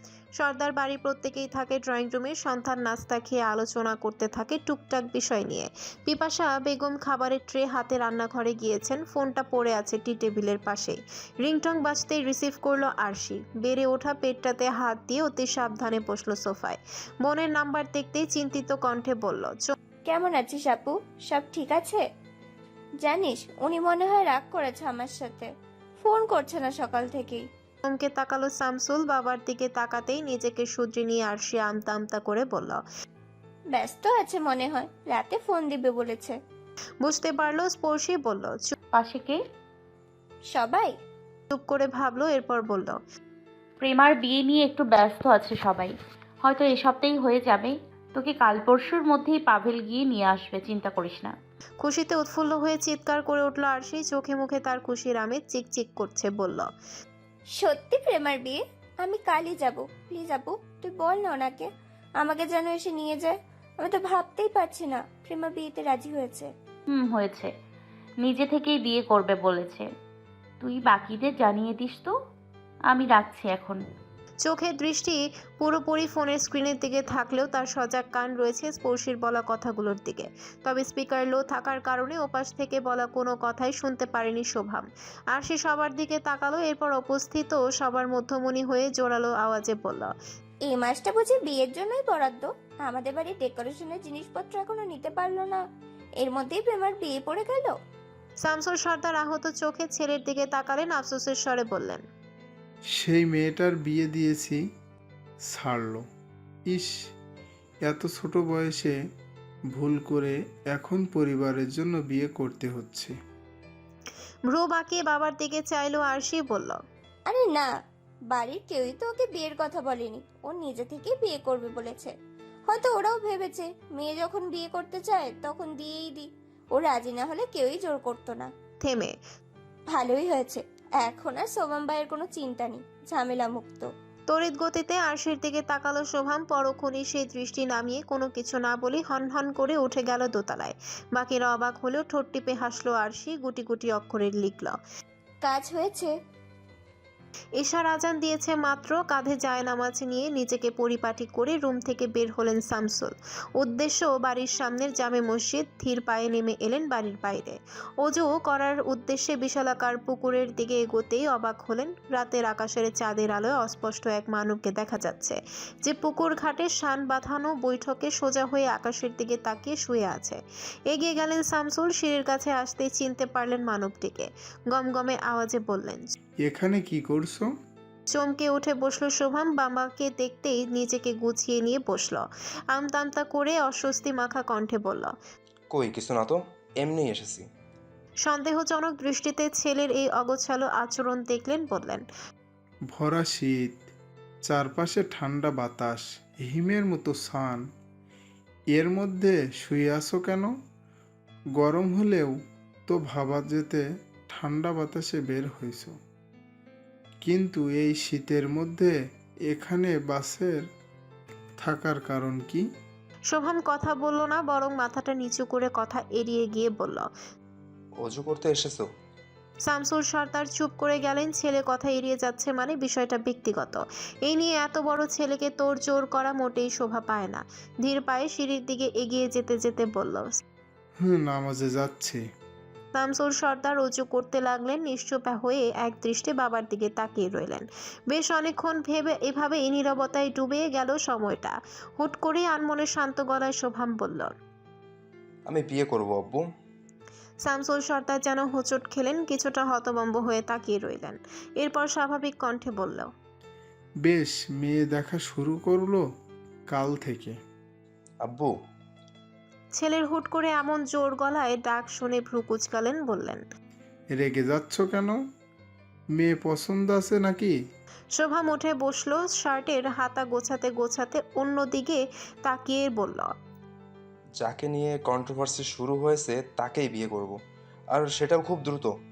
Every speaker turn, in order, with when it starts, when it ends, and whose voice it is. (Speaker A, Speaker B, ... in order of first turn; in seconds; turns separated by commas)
Speaker A: 0.4-19.7, Speaker B: 20.1-22.0, Speaker B: 23.0-25.5, Speaker B: 26.0-27.4, Speaker A: 27.9-32.8, Speaker B: 33.7-36.4, Speaker A: 37.0-38.7, Speaker C: 38.9-39.4, Speaker B: 40.5-41.0, Speaker A: 41.5-43.0, Speaker C: 43.8-45.9, Speaker C: 46.4-51.3, Speaker A: 51.8-56.7, Speaker B: 57.6-61.7, Speaker B: 62.2-66.5, Speaker C: 66.9-67.5, Speaker C: 68.2-69.9, Speaker C: 70.6-72.1, Speaker C: 72.9-73.8, Speaker A: 74.5-90.1, Speaker B: 90.7-95.6, Speaker B: 96.2-97.8, Speaker A: 98.4-102.0, Speaker D: 103.0-104.6, Speaker D: 105.4-106.0, Speaker D: 107.8-109.0, Speaker D: 109.8-113.1, Speaker A: 114.5-116.8, Speaker B: 117.3-117.7, Speaker B: 118.3-122.1, Speaker B: 122.7-128.5, Speaker A: 128.8-129.2, Speaker B: 129.9-133.9, Speaker A: 134.3-144.8, Speaker B: 145.4-146.1, Speaker A: 147.6-176.1, Speaker D: 176.4-177.5, Speaker A: 178.1-185.1, Speaker E: 185.7-187.5, Speaker A: 188.3-192.1, Speaker D: 192.9-193.8, Speaker D: 194.4-197.6, Speaker D: 198.7-200.5, Speaker D: 201.6-202.4, Speaker D: 202.9-206.0, Speaker D: 207.2-208.9, Speaker D: 209.5-210.6, Speaker D: 211.6-212.7, Speaker A: 213.3-217.1, Speaker E: 218.0-218.8, Speaker A: 219.7-230.4, Speaker D: 231.0-232.2, Speaker A: 232.9-244.3, Speaker E: 245.5-246.5, Speaker A: 247.5-253.1, Speaker D: 254.0-256.0, Speaker D: 256.7-257.4, Speaker E: 258.2-258.5, Speaker A: 259.8-263.4, Speaker D: 264.1-265.2, Speaker D: 266.1-267.6, Speaker A: 268.2-273.3, Speaker E: 274.4-277.4, Speaker E: 277.9-278.9